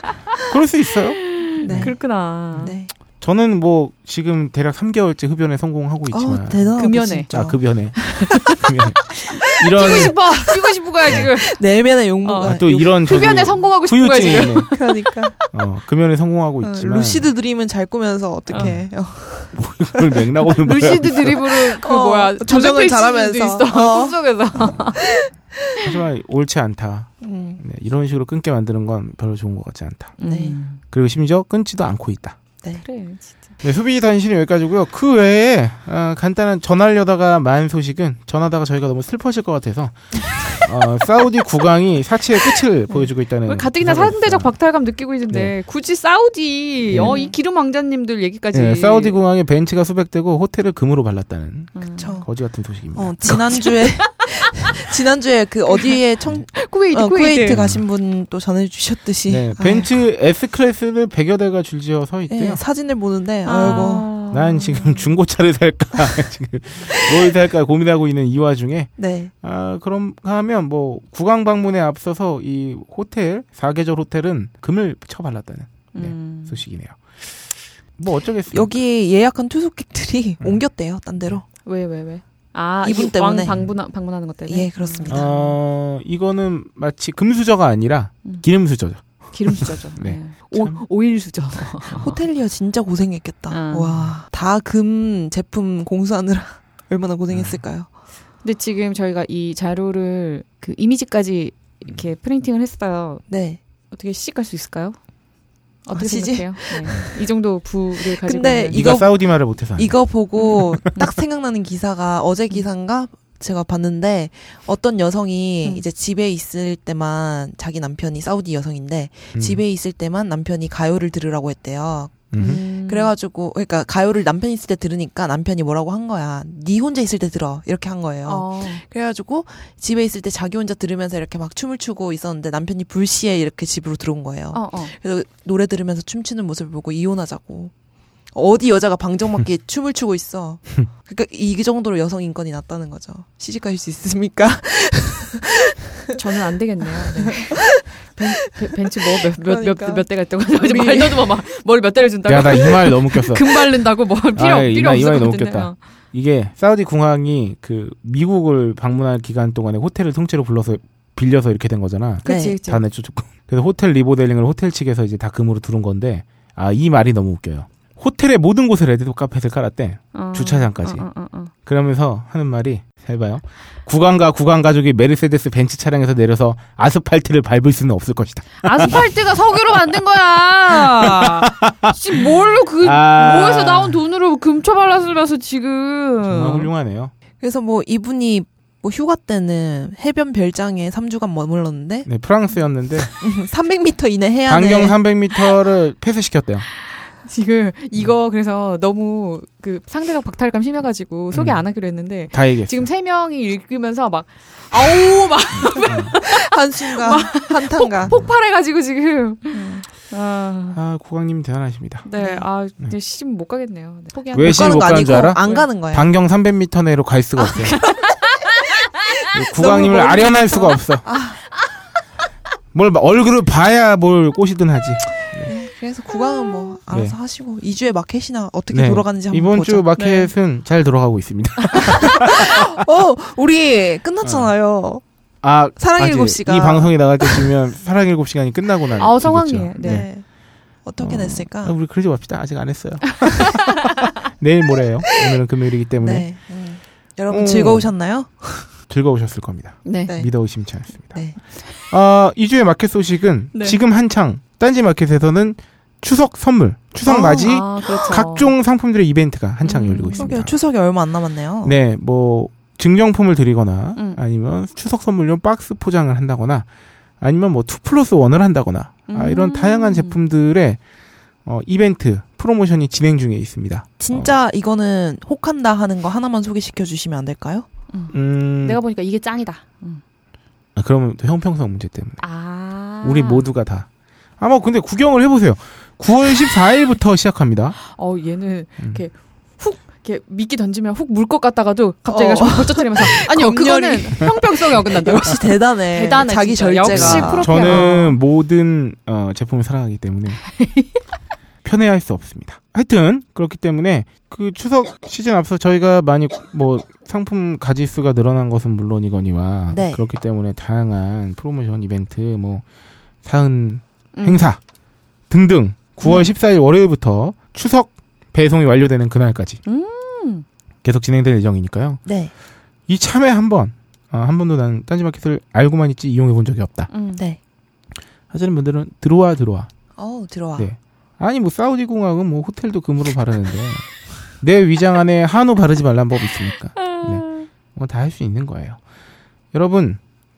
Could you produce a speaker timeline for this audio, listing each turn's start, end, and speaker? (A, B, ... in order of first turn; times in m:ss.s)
0:00.5-0:02.0 A
0:01.2-0:02.7 B
0:01.6-0:02.9 C
0:02.5-0:10.2 A
0:06.1-0:08.6 C
0:06.8-0:07.3 B
0:09.1-0:13.0 C
0:09.7-0:11.6 B
0:12.2-0:15.1 B
0:12.4-0:14.7 A
0:14.3-0:15.4 C
0:15.5-0:17.3 A
0:16.6-0:19.8 C
0:18.5-0:18.8 B
0:19.5-0:21.4 A
0:20.6-0:25.0 B
0:21.7-0:25.3 C
0:25.8-0:30.1 A
0:27.2-0:27.6 C
0:30.2-0:30.8 B
0:30.2-0:30.6 C
0:30.9-0:32.4 A
0:32.8-0:33.3 B
0:33.6-0:44.5 A
0:43.3-0:49.2 B
0:46.9-0:47.2 A
0:47.0-0:47.3 C
0:48.5-0:53.2 A
0:51.7-0:52.2 B
0:51.9-0:52.2 C
0:52.9-0:59.9 C
0:53.5-0:54.3 B
0:55.7-0:56.0 B
0:56.5-0:57.6 B
0:57.5-0:57.8 A
0:59.3-1:02.6 A
1:02.3-1:04.1 C
1:03.4-1:05.0 B
1:03.6-1:17.4 A
1:09.0-1:09.3 C
1:15.9-1:16.6 B
1:18.0-1:18.7 A
1:18.5-1:21.4 C
1:21.6-1:25.3 B
1:22.8-1:23.6 C
1:24.5-1:25.3 C
1:25.1-1:29.3 A
1:29.1-1:32.2 B
1:29.9-1:30.8 A
1:32.0-1:37.9 C
1:33.5-1:34.1 B
1:37.3-1:37.6 A
1:38.4-1:43.3 B
1:43.3-1:43.6 C
1:43.9-1:45.0 B
1:45.8-1:49.0 B
1:45.9-1:47.2 C
1:48.0-2:17.7 C
1:48.7-1:50.8 A
1:59.3-1:59.6 A
2:02.3-2:02.6 A
2:02.4-2:03.1 B
2:08.2-2:08.8 B
2:14.5-2:14.9 B
2:18.3-2:26.2 C
2:26.1-2:35.8 B
2:27.0-2:27.6 C
2:29.0-2:31.4 C
2:32.2-2:33.4 A
2:34.3-2:51.0 A
2:42.2-2:42.8 B
2:42.2-2:42.6 C
2:50.1-2:51.5 B
2:51.6-2:59.0 A
2:58.6-3:06.7 B
3:00.8-3:02.2 A
3:02.8-3:04.0 A
3:06.2-3:07.1 A
3:07.4-3:12.1 C
3:12.0-3:13.1 A
3:13.2-3:15.0 C
3:14.5-3:16.6 A
3:17.2-3:30.8 B
3:21.3-3:21.6 A
3:22.3-3:22.8 A
3:25.5-3:26.1 A
3:25.7-3:28.2 C
3:29.5-3:29.8 C
3:30.7-3:32.0 A
3:32.0-3:35.7 B
3:32.2-3:32.5 C
3:34.3-3:36.1 C
3:34.3-3:37.8 A
3:37.7-3:39.1 B
3:39.3-3:41.0 A
3:39.6-3:41.5 C
3:39.6-3:40.8 B
3:42.7-3:45.5 A
3:45.4-3:49.8 C
3:46.9-3:47.1 A
3:48.7-3:52.6 A
3:50.0-3:50.3 B
3:52.2-3:55.0 C
3:54.2-3:54.5 A
3:55.4-4:00.1 A
3:55.8-3:57.5 C
3:59.0-4:00.1 B
3:59.8-4:00.2 C
4:00.8-4:01.7 C
4:01.0-4:06.3 A
4:06.0-4:08.7 C
4:07.3-4:07.9 A
4:08.9-4:20.5 A
4:09.8-4:10.2 B
4:10.0-4:10.3 C
4:11.0-4:11.4 C
4:17.0-4:18.5 B
4:19.6-4:20.3 B
4:20.1-4:21.7 C
4:21.6-4:26.7 A
4:27.2-4:30.8 A
4:29.1-4:30.2 B
4:31.4-4:34.3 A
4:34.0-4:37.7 C
4:37.9-4:40.0 B
4:38.1-4:38.8 A
4:40.8-4:42.2 A
4:42.2-4:43.4 B
4:43.0-4:43.9 A
4:44.4-4:47.8 A
4:47.8-4:58.2 B
4:52.1-4:57.9 C
4:56.9-5:00.4 A
5:00.6-5:00.8 B
5:01.6-5:12.6 A
5:09.7-5:10.0 C
5:13.2-5:14.6 A
5:14.1-5:14.5 B
5:15.3-5:19.6 A
5:19.6-5:20.4 B
5:20.8-5:22.0 A
5:22.0-5:22.3 C
5:22.9-5:26.9 A
5:26.9-5:27.2 B
5:28.3-5:29.7 A
5:30.0-5:30.7 C
5:30.6-5:38.8 A
5:36.9-5:37.4 B
5:39.5-5:40.0 A